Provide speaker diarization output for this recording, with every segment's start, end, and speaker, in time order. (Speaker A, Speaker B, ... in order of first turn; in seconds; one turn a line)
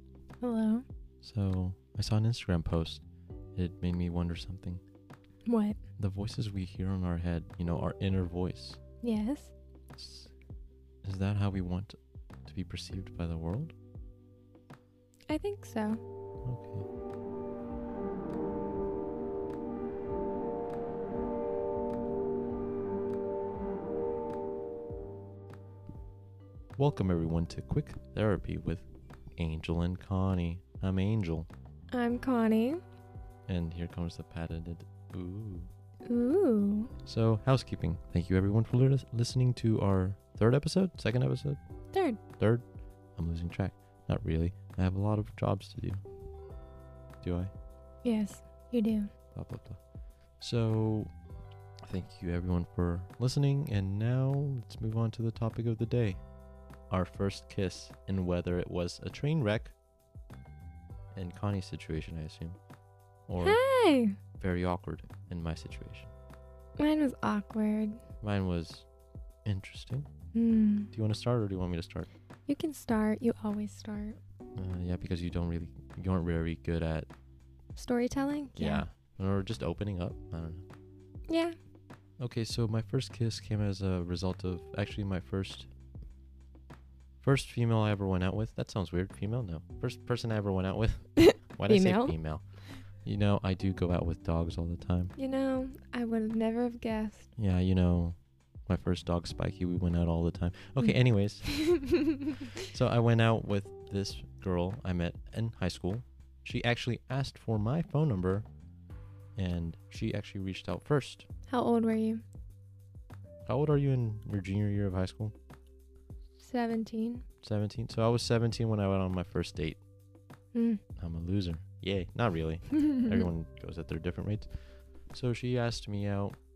Speaker A: 0.4-0.8
Speaker B: 1.2-3.0
Speaker B: 3.6-4.8
Speaker A: 5.5-5.8
Speaker B: 6.0-8.8
Speaker A: 9.0-9.5
Speaker B: 9.9-10.3
Speaker B: 11.0-13.7
Speaker A: 15.3-16.0
Speaker B: 16.4-16.9
Speaker B: 26.8-28.9
Speaker B: 29.4-31.5
Speaker A: 31.9-32.8
Speaker B: 33.5-35.7
Speaker A: 36.1-36.9
Speaker B: 37.0-41.6
Speaker A: 41.9-42.2
Speaker B: 42.3-42.6
Speaker B: 43.2-46.0
Speaker B: 47.2-47.5
Speaker A: 48.0-49.1
Speaker B: 49.3-49.8
Speaker B: 50.4-51.1
Speaker B: 51.9-56.2
Speaker B: 56.9-59.7
Speaker B: 61.1-62.6
Speaker B: 63.3-63.6
Speaker A: 63.4-64.2
Speaker B: 64.3-66.1
Speaker A: 66.8-68.0
Speaker B: 68.2-68.9
Speaker B: 69.5-70.1
Speaker A: 70.3-70.9
Speaker B: 70.9-72.1
Speaker A: 72.5-74.2
Speaker B: 74.6-77.1
Speaker A: 77.8-78.8
Speaker B: 78.6-80.7
Speaker A: 81.3-81.5
Speaker B: 82.2-85.7
Speaker B: 87.2-95.1
Speaker A: 91.2-92.2
Speaker A: 95.2-97.3
Speaker B: 97.4-101.6
Speaker A: 100.8-102.5
Speaker B: 102.6-108.5
Speaker B: 109.4-111.3
Speaker A: 111.5-112.2
Speaker B: 113.5-115.3
Speaker A: 116.4-117.2
Speaker B: 117.4-119.8
Speaker A: 120.5-120.8
Speaker B: 121.0-126.4